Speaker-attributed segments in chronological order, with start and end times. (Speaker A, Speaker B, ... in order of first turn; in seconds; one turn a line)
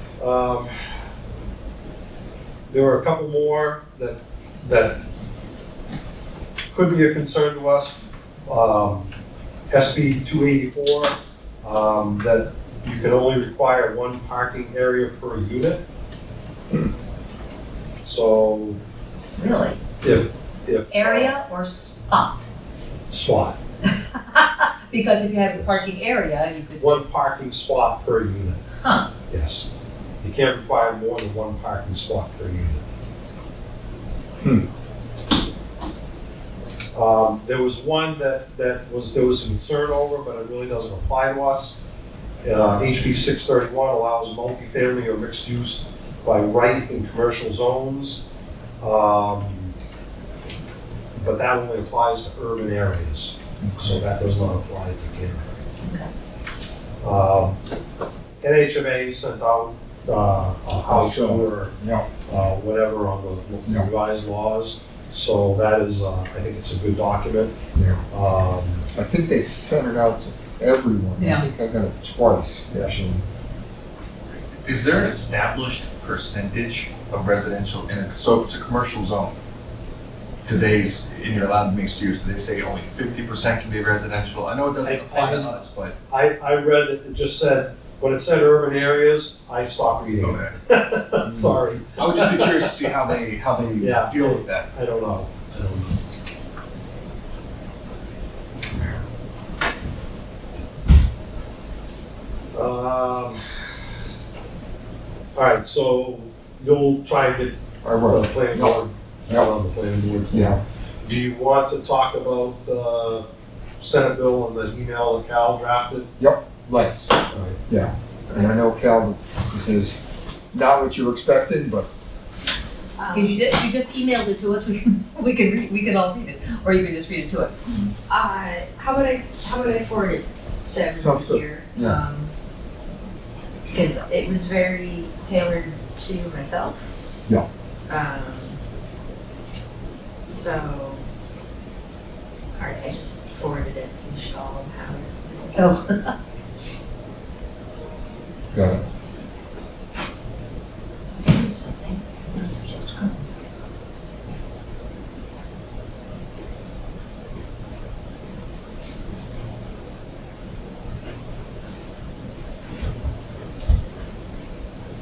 Speaker A: 0.2-0.7
Speaker A: 2.7-5.0
Speaker A: 6.7-9.1
Speaker A: 9.7-15.8
Speaker A: 18.0-18.8
Speaker B: 19.4-19.8
Speaker A: 20.0-21.3
Speaker B: 20.9-22.4
Speaker A: 23.1-23.6
Speaker B: 23.9-27.1
Speaker A: 25.6-25.9
Speaker A: 26.8-28.6
Speaker B: 28.8-29.1
Speaker A: 29.3-29.7
Speaker A: 30.2-32.8
Speaker A: 36.9-41.8
Speaker A: 42.4-48.2
Speaker A: 48.8-49.7
Speaker A: 51.2-55.6
Speaker C: 53.6-54.0
Speaker A: 57.0-57.6
Speaker A: 58.4-61.7
Speaker C: 60.7-62.1
Speaker A: 62.3-67.5
Speaker C: 63.6-63.9
Speaker C: 67.7-68.0
Speaker A: 68.1-68.9
Speaker C: 68.9-73.2
Speaker B: 71.2-71.5
Speaker D: 74.6-79.3
Speaker D: 80.4-86.0
Speaker A: 84.8-85.5
Speaker A: 86.1-92.8
Speaker D: 90.2-90.5
Speaker C: 91.2-91.6
Speaker D: 92.0-94.7
Speaker A: 93.8-96.0
Speaker C: 98.7-99.0
Speaker A: 102.5-103.4
Speaker A: 105.3-113.2
Speaker C: 107.8-108.8
Speaker C: 110.3-110.6
Speaker A: 113.8-116.1
Speaker C: 116.2-117.1
Speaker A: 117.3-117.6
Speaker C: 117.7-120.0
Speaker C: 120.5-121.9
Speaker E: 123.0-123.5
Speaker B: 123.1-127.9
Speaker E: 128.1-132.3
Speaker C: 130.9-132.0
Speaker E: 133.7-136.8
Speaker E: 137.9-138.6
Speaker E: 140.2-141.1
Speaker E: 142.5-145.8
Speaker B: 145.5-146.1
Speaker C: 148.5-148.8
Speaker B: 151.2-153.2